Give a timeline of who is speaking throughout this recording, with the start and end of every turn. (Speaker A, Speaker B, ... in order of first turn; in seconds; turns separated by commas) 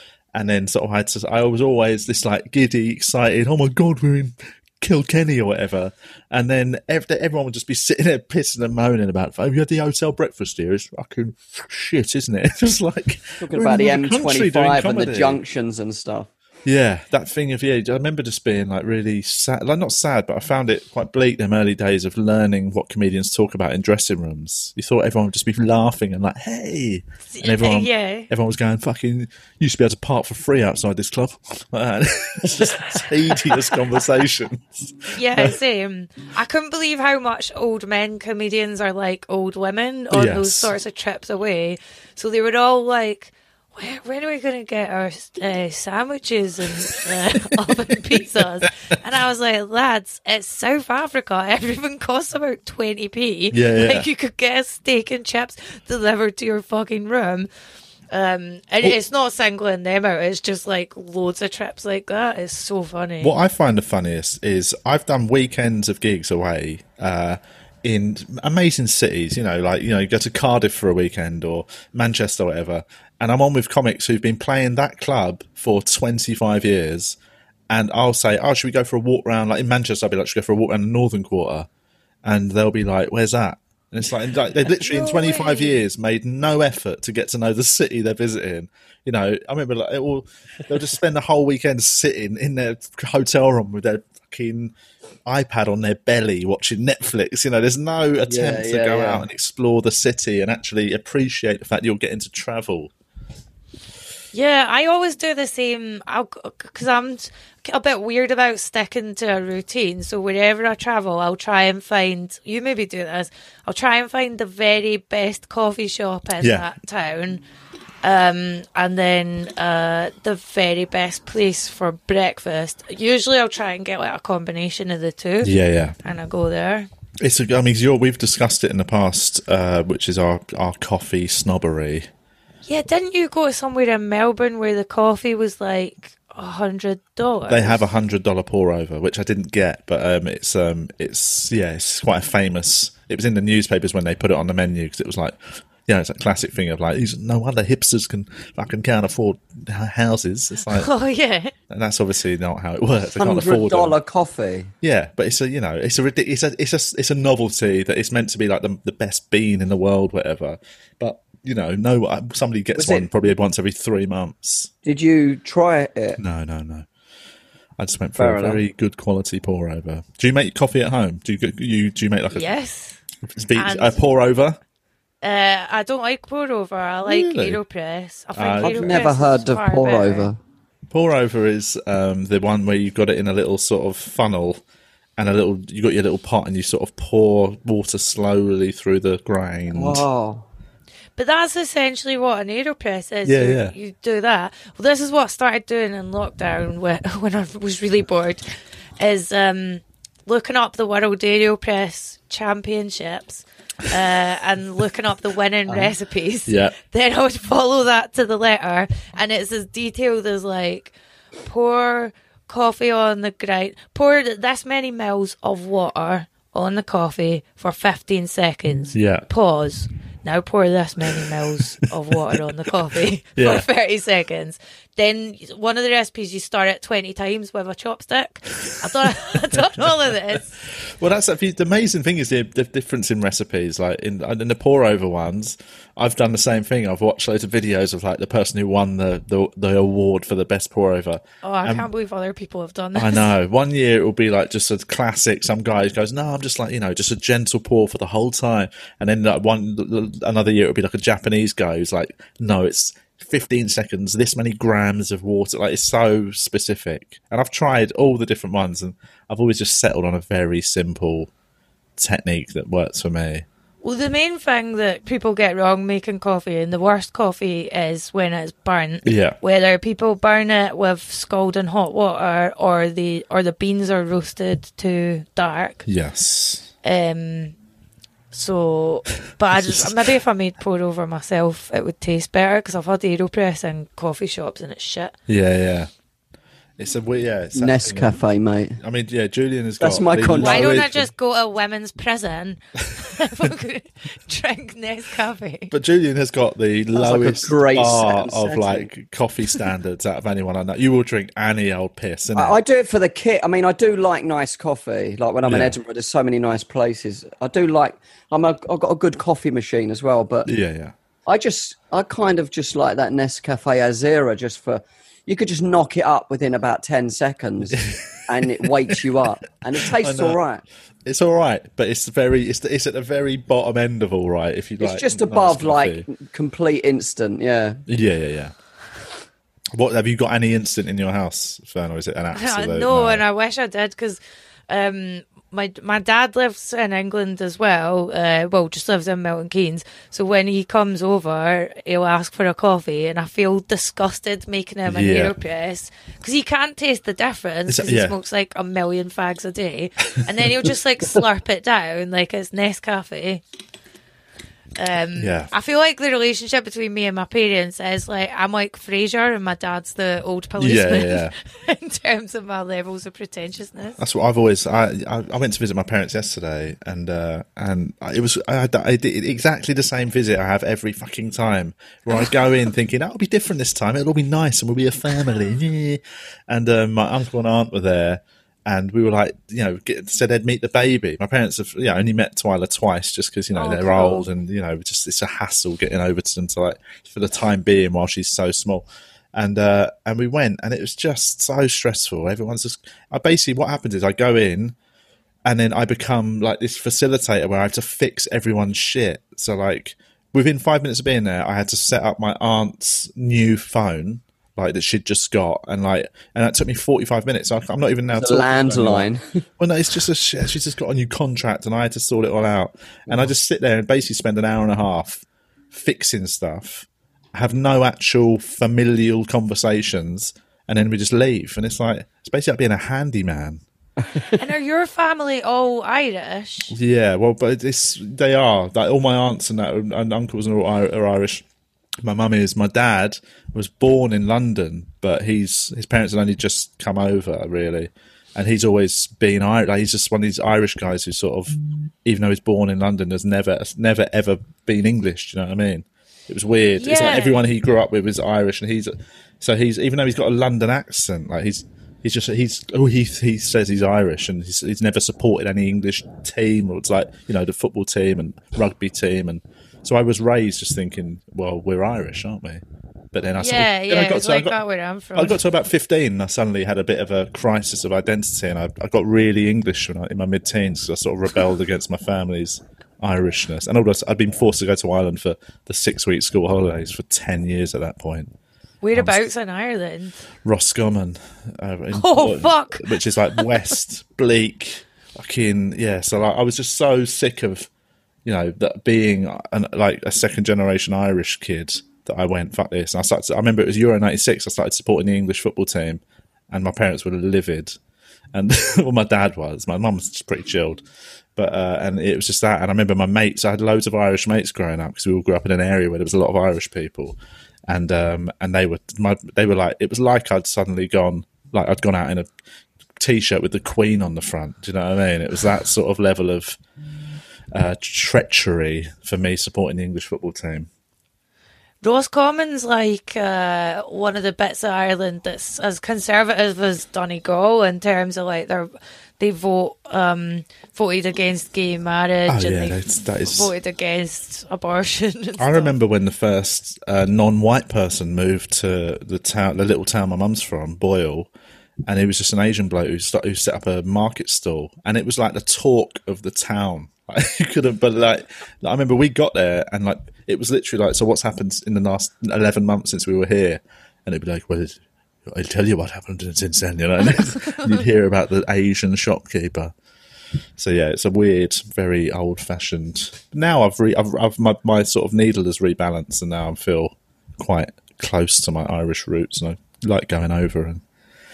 Speaker A: 0.3-15.4, Speaker B: 13.4-16.3, Speaker A: 16.6-35.6, Speaker C: 27.3-28.3, Speaker C: 35.1-57.5, Speaker A: 40.1-40.7, Speaker A: 53.5-54.1, Speaker C: 58.1-63.4, Speaker A: 63.2-77.2, Speaker A: 77.7-81.7, Speaker A: 82.2-94.7, Speaker C: 84.7-85.8, Speaker A: 95.2-102.9, Speaker B: 98.3-99.2, Speaker C: 104.3-117.4, Speaker A: 116.4-116.7, Speaker C: 118.0-126.9, Speaker A: 125.4-126.0, Speaker A: 127.2-132.1, Speaker C: 132.6-137.8, Speaker A: 137.5-150.9, Speaker C: 150.7-151.5, Speaker A: 151.7-154.0, Speaker B: 153.2-154.7, Speaker A: 154.8-164.7, Speaker B: 162.7-163.1, Speaker B: 164.8-166.2, Speaker A: 166.2-166.9, Speaker A: 167.8-172.5, Speaker B: 168.2-168.6, Speaker C: 172.3-173.0, Speaker A: 173.3-174.6, Speaker C: 173.5-174.0, Speaker C: 175.2-180.3, Speaker A: 177.1-177.6, Speaker A: 178.3-179.1, Speaker B: 178.6-180.4, Speaker A: 180.9-184.6, Speaker A: 185.2-190.0, Speaker B: 189.7-190.4, Speaker C: 191.2-198.4, Speaker A: 193.2-193.7, Speaker C: 199.0-210.9, Speaker A: 206.5-206.8, Speaker C: 211.4-230.5, Speaker A: 218.9-219.2, Speaker A: 223.3-223.6, Speaker A: 230.7-241.9, Speaker C: 241.4-243.3, Speaker A: 242.9-261.3, Speaker A: 262.0-263.4, Speaker C: 263.8-275.8, Speaker A: 269.0-269.4, Speaker A: 275.9-276.7, Speaker C: 276.8-277.5, Speaker C: 278.3-285.1, Speaker A: 279.5-280.0, Speaker A: 285.3-285.9, Speaker A: 286.8-288.2, Speaker B: 287.5-288.8, Speaker A: 288.8-291.1, Speaker B: 289.8-290.8, Speaker C: 290.3-295.7, Speaker A: 295.7-302.6, Speaker B: 296.9-298.9, Speaker B: 302.3-310.5, Speaker A: 305.4-305.7, Speaker A: 310.4-310.9, Speaker B: 311.2-320.6, Speaker A: 317.7-318.7, Speaker A: 319.8-320.4, Speaker A: 321.0-326.1, Speaker B: 324.8-327.8, Speaker A: 327.9-328.5, Speaker A: 329.7-333.2, Speaker C: 332.3-353.4, Speaker A: 344.9-345.3, Speaker A: 347.7-348.1, Speaker C: 354.8-364.0, Speaker A: 355.1-355.5, Speaker A: 360.6-361.3, Speaker A: 364.0-394.7, Speaker C: 383.5-384.3, Speaker A: 395.4-423.6, Speaker B: 408.1-409.4, Speaker C: 424.4-426.7, Speaker A: 426.7-431.4, Speaker A: 432.0-464.6, Speaker C: 446.8-447.4, Speaker C: 463.4-465.4, Speaker A: 465.1-478.3, Speaker C: 478.8-480.2, Speaker A: 478.9-479.2, Speaker A: 480.4-487.7, Speaker C: 481.9-483.5, Speaker A: 488.2-497.8, Speaker A: 498.3-500.8, Speaker A: 501.4-507.2, Speaker A: 507.7-512.3, Speaker A: 513.0-516.6, Speaker A: 517.5-520.7, Speaker C: 521.8-535.7, Speaker A: 532.3-533.5, Speaker A: 535.4-541.3, Speaker A: 541.9-559.7, Speaker A: 560.6-570.8